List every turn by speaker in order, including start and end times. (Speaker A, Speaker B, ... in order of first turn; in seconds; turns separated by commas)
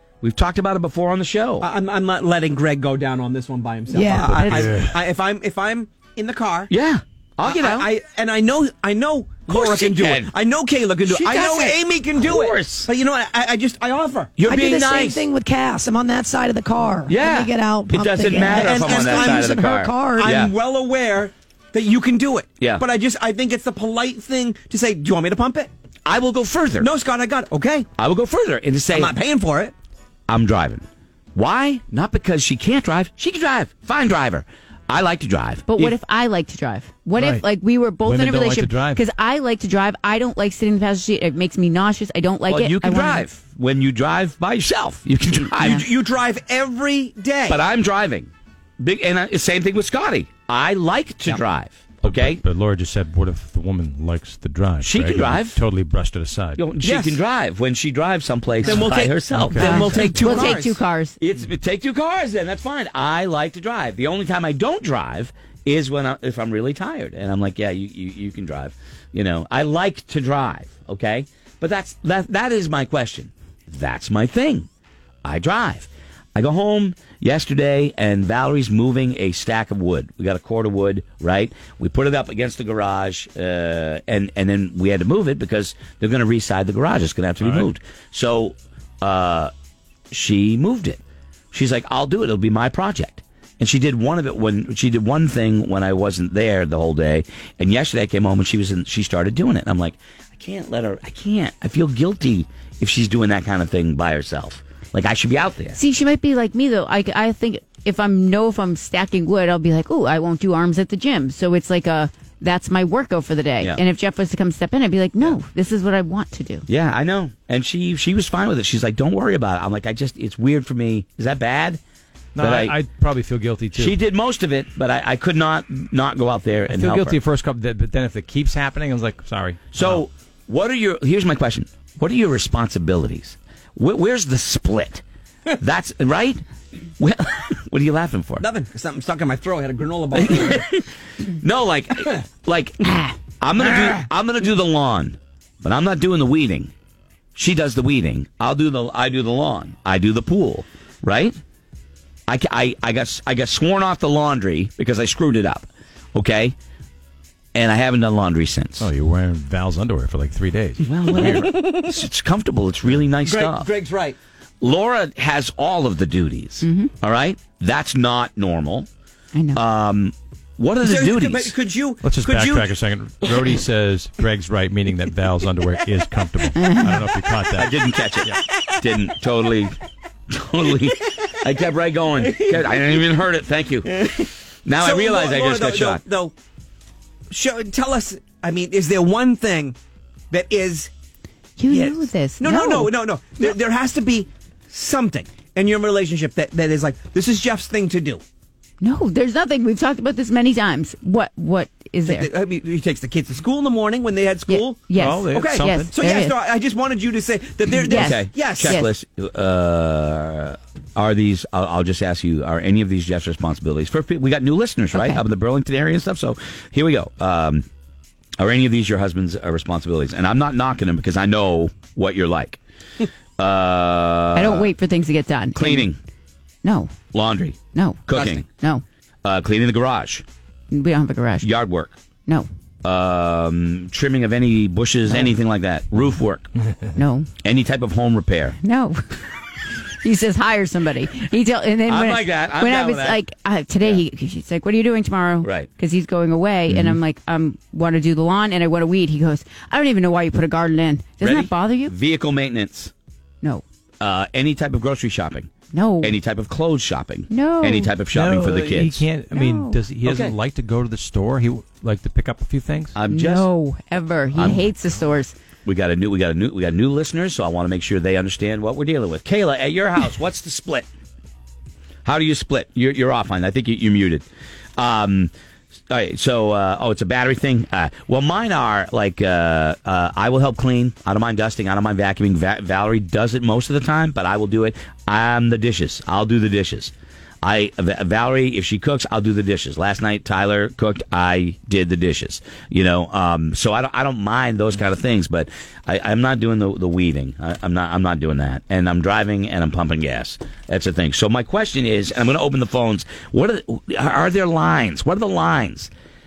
Speaker A: 0.2-1.7, Speaker B: 1.6-6.7, Speaker C: 3.9-4.5, Speaker D: 4.3-5.0, Speaker A: 6.7-7.9, Speaker B: 7.4-14.3, Speaker A: 9.5-10.3, Speaker A: 11.1-12.9, Speaker A: 14.4-15.3, Speaker C: 14.5-20.3, Speaker A: 17.1-20.5, Speaker B: 18.4-19.4, Speaker B: 20.1-25.7, Speaker A: 26.1-26.9, Speaker B: 26.8-27.9, Speaker A: 28.0-29.1, Speaker B: 28.9-29.7, Speaker A: 30.3-36.0, Speaker E: 35.7-43.3, Speaker D: 37.1-37.4, Speaker D: 38.1-39.0, Speaker A: 42.5-45.8, Speaker B: 45.6-47.6, Speaker A: 47.5-52.4, Speaker D: 52.0-56.7, Speaker A: 54.8-55.6, Speaker A: 56.6-60.5, Speaker B: 56.8-57.2, Speaker B: 58.6-60.8, Speaker D: 58.7-60.2, Speaker E: 59.6-61.2, Speaker A: 61.2-74.7, Speaker A: 75.2-89.5, Speaker D: 87.4-87.7, Speaker A: 90.1-91.0, Speaker A: 91.5-105.8, Speaker E: 105.8-116.7, Speaker A: 116.7-121.8, Speaker D: 122.3-124.0, Speaker A: 122.4-122.8, Speaker A: 123.8-127.2, Speaker D: 126.7-130.0, Speaker A: 129.7-135.0, Speaker A: 135.6-136.4, Speaker A: 137.0-138.5, Speaker B: 138.4-140.7, Speaker A: 140.2-146.7, Speaker A: 147.3-151.4, Speaker A: 152.3-156.6, Speaker A: 157.6-158.9, Speaker D: 158.8-161.5, Speaker A: 160.8-163.7, Speaker B: 163.2-164.2, Speaker A: 164.6-168.9, Speaker E: 166.6-166.9, Speaker E: 169.3-169.6, Speaker A: 169.5-171.6, Speaker B: 170.8-172.7, Speaker D: 172.0-178.4, Speaker E: 176.6-177.1, Speaker A: 177.5-179.8, Speaker A: 180.3-183.9, Speaker B: 182.2-183.0, Speaker B: 183.9-186.3, Speaker A: 184.7-186.0, Speaker B: 187.3-189.8, Speaker B: 190.3-190.9, Speaker E: 191.6-192.9, Speaker B: 191.7-198.2, Speaker E: 198.8-202.3, Speaker B: 202.1-208.8, Speaker E: 204.5-206.4, Speaker D: 204.9-206.0, Speaker E: 207.7-208.9, Speaker A: 207.9-217.7, Speaker E: 214.9-215.2, Speaker A: 218.4-222.6, Speaker A: 223.4-224.7, Speaker E: 224.3-225.9, Speaker A: 225.6-226.0, Speaker E: 226.6-226.9, Speaker A: 227.1-228.4, Speaker E: 227.7-228.8, Speaker B: 228.1-228.4, Speaker A: 229.2-230.2, Speaker E: 230.7-231.5, Speaker A: 231.4-231.9, Speaker A: 232.8-236.5, Speaker E: 237.0-237.3, Speaker A: 237.4-238.6, Speaker E: 238.6-239.0, Speaker E: 239.9-251.9, Speaker A: 241.9-243.2, Speaker A: 245.4-245.7, Speaker A: 251.2-252.9, Speaker A: 254.0-255.5, Speaker E: 255.7-256.1, Speaker A: 256.0-259.0, Speaker E: 257.3-258.0, Speaker D: 258.1-263.0, Speaker E: 259.3-259.8, Speaker A: 260.1-260.4, Speaker A: 262.9-263.5, Speaker E: 263.1-265.4, Speaker A: 264.3-264.6, Speaker A: 265.6-270.9, Speaker A: 272.1-274.2, Speaker A: 274.8-275.3, Speaker A: 275.9-305.9